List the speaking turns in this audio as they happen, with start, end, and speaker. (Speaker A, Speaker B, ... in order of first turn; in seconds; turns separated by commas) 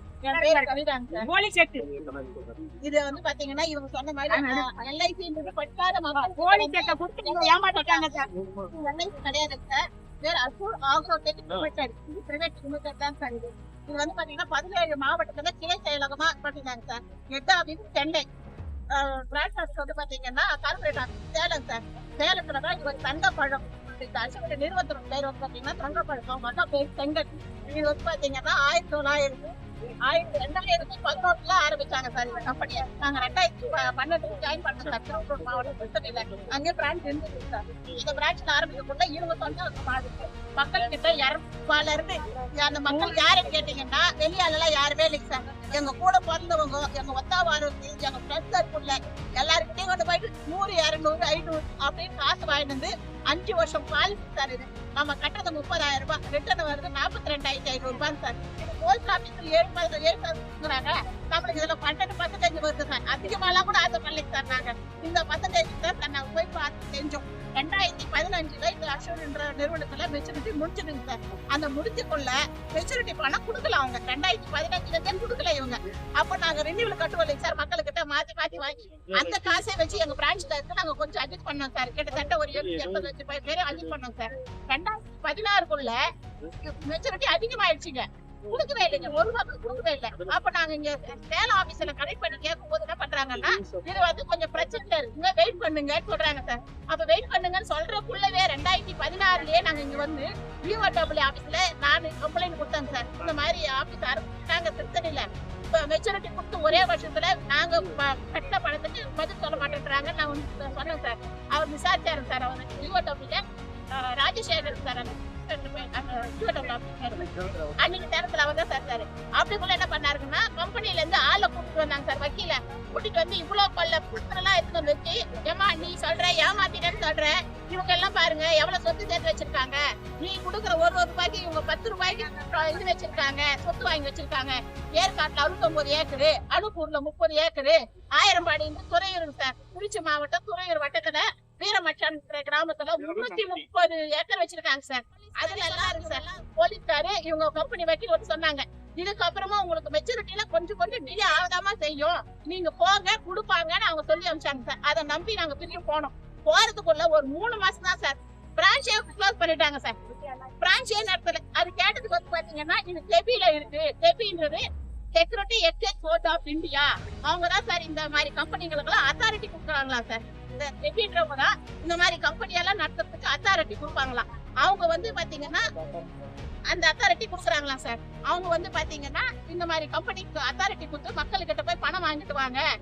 Speaker A: 0.2-1.3, Speaker B: 0.3-2.3, Speaker A: 2.8-18.2, Speaker B: 4.3-4.7, Speaker B: 6.2-8.3, Speaker A: 18.9-29.5, Speaker A: 30.0-86.0, Speaker B: 42.9-43.5, Speaker A: 86.6-117.3, Speaker A: 117.8-159.9, Speaker B: 145.3-146.2, Speaker A: 160.6-175.7, Speaker A: 176.7-182.6